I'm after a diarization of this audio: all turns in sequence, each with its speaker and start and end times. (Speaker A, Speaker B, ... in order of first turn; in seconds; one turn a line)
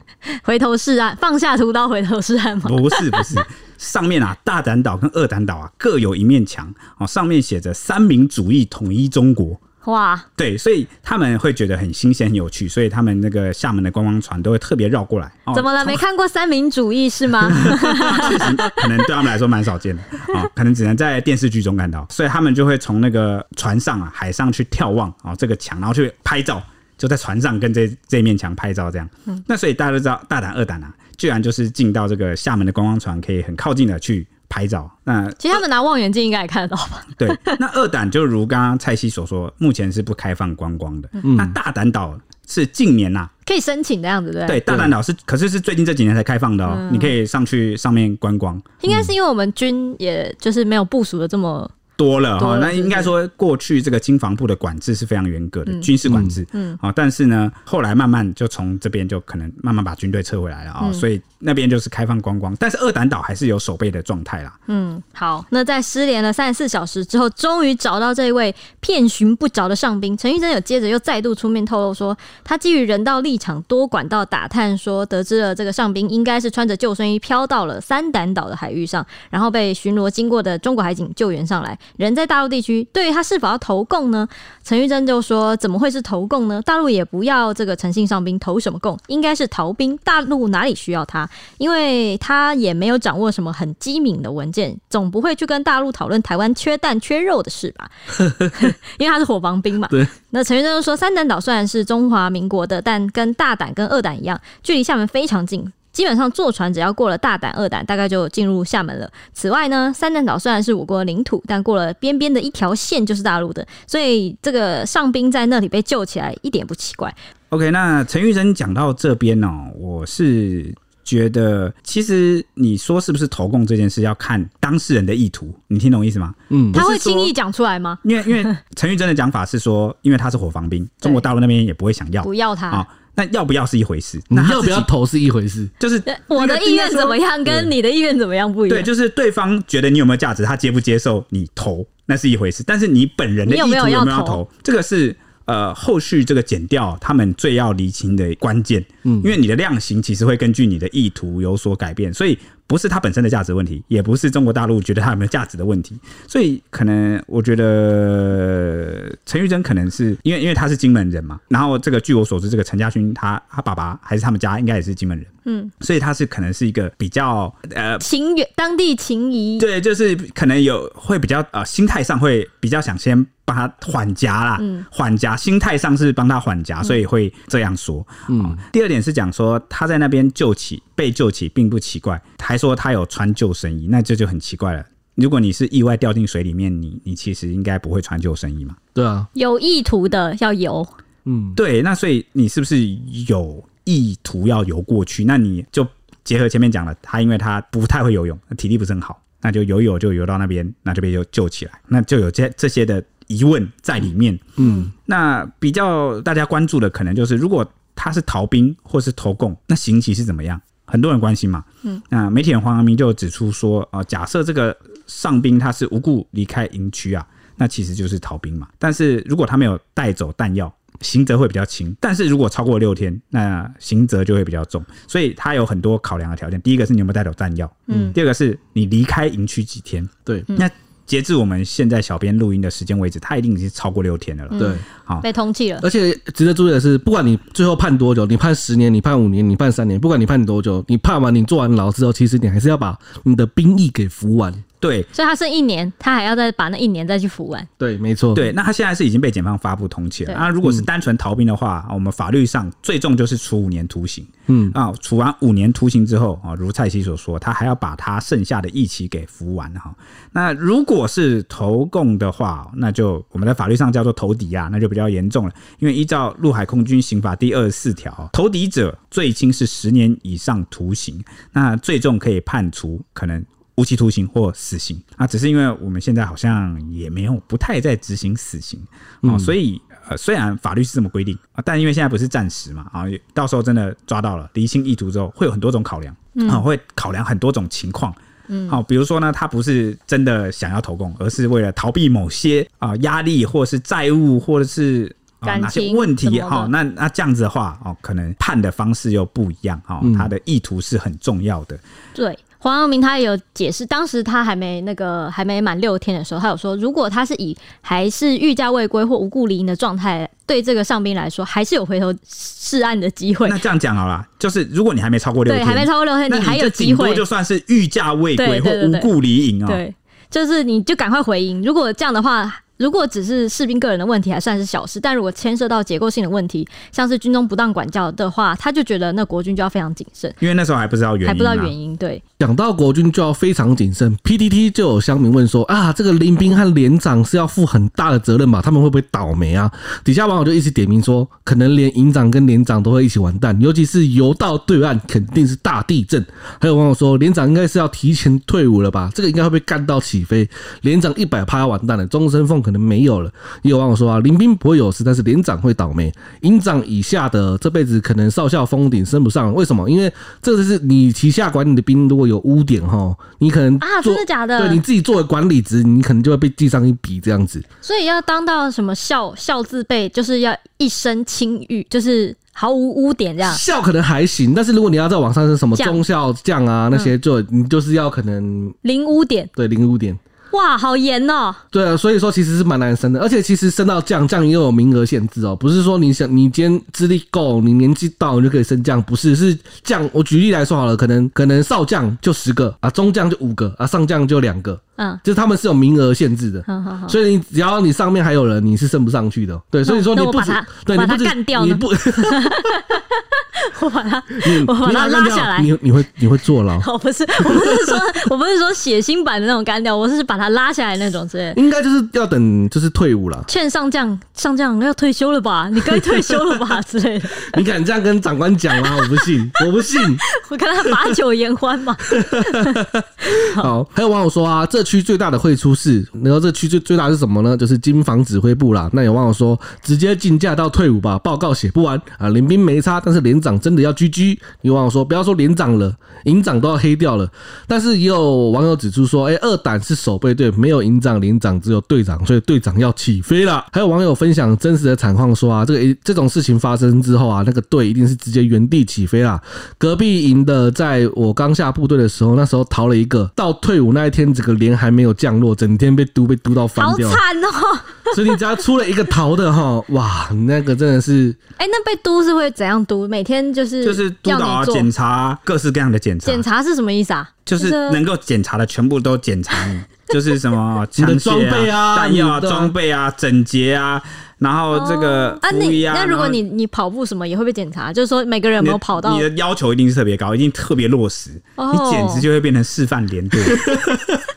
Speaker A: 0.3-3.4
Speaker B: 2.6-9.6
Speaker A: 9.8-10.3
Speaker B: 10.4-16.0
Speaker A: 15.5-18.8
Speaker B: 17.4-35.6
Speaker A: 35.4-37.6
Speaker B: 37.2-43.3
Speaker C: 41.2-41.5
Speaker A: 43.5-44.9
Speaker B: 44.4-48.8
Speaker A: 46.7-47.1
Speaker A: 48.8-51.7
Speaker B: 52.0-64.6
Speaker A: 52.4-53.1
Speaker C: 56.1-56.4
Speaker A: 56.5-56.8
Speaker A: 64.7-97.9
Speaker C: 98.2-98.6
Speaker A: 98.5-117.1
Speaker B: 117.5-127.3
Speaker C: 126.5-126.8
Speaker A: 126.7-128.5
Speaker B: 128.0-134.9
Speaker A: 132.2-132.8
Speaker C: 134.3-135.7
Speaker B: 135.8-137.2
Speaker A: 136.1-138.9
Speaker B: 138.7-165.3
Speaker A: 143.5-144.4
Speaker C: 149.0-149.3
Speaker A: 165.4-165.7
Speaker B: 165.8-168.0
Speaker A: 168.0-169.6
Speaker B: 169.6-188.8
Speaker A: 174.6-174.8
Speaker C: 178.3-178.6
Speaker C: 188.9-189.3
Speaker A: 189.3-190.9
Speaker C: 191.2-191.6
Speaker B: 191.6-235.2
Speaker C: 204.6-204.9
Speaker A: 204.6-204.9
Speaker C: 227.9-228.2
Speaker A: 234.5-235.8
Speaker C: 234.6-234.8
Speaker C: 235.8-244.6
Speaker B: 244.8-245.1
Speaker A: 245.1-247.7
Speaker C: 247.8-248.4
Speaker B: 248.3-288.2
Speaker C: 254.5-254.8
Speaker C: 279.2-279.5
Speaker A: 286.3-286.6
Speaker A: 288.5-288.8
Speaker B: 288.7-301.8
Speaker A: 295.4-296.7
Speaker C: 300.0-300.3
Speaker A: 302.1-313.6
Speaker B: 313.4-319.8
Speaker A: 315.4-317.2
Speaker A: 318.4-319.1
Speaker A: 319.6-330.4
Speaker B: 330.4-331.7
Speaker A: 331.2-332.2
Speaker C: 332.4-367.6
Speaker A: 363.8-364.8
Speaker A: 367.8-373.6
Speaker C: 373.4-378.8
Speaker A: 375.8-376.0
Speaker A: 378.8-379.5
Speaker C: 379.6-380.2
Speaker A: 380.5-381.6
Speaker C: 381.7-402.8
Speaker A: 396.7-397.2
Speaker A: 399.9-405.7
Speaker C: 404.3-406.9
Speaker A: 406.8-411.6
Speaker C: 407.4-408.0
Speaker C: 411.5-413.5
Speaker A: 413.5-417.6
Speaker C: 417.4-420.2
Speaker A: 418.8-419.6
Speaker A: 420.2-423.7
Speaker C: 422.1-457.2
Speaker A: 456.8-458.4
Speaker C: 458.1-461.4
Speaker A: 461.6-464.9
Speaker B: 463.8-466.4
Speaker A: 466.2-468.0
Speaker B: 467.4-476.4
Speaker C: 471.0-472.7
Speaker A: 474.7-479.3
Speaker B: 478.6-483.9
Speaker A: 481.6-482.3
Speaker C: 483.4-484.2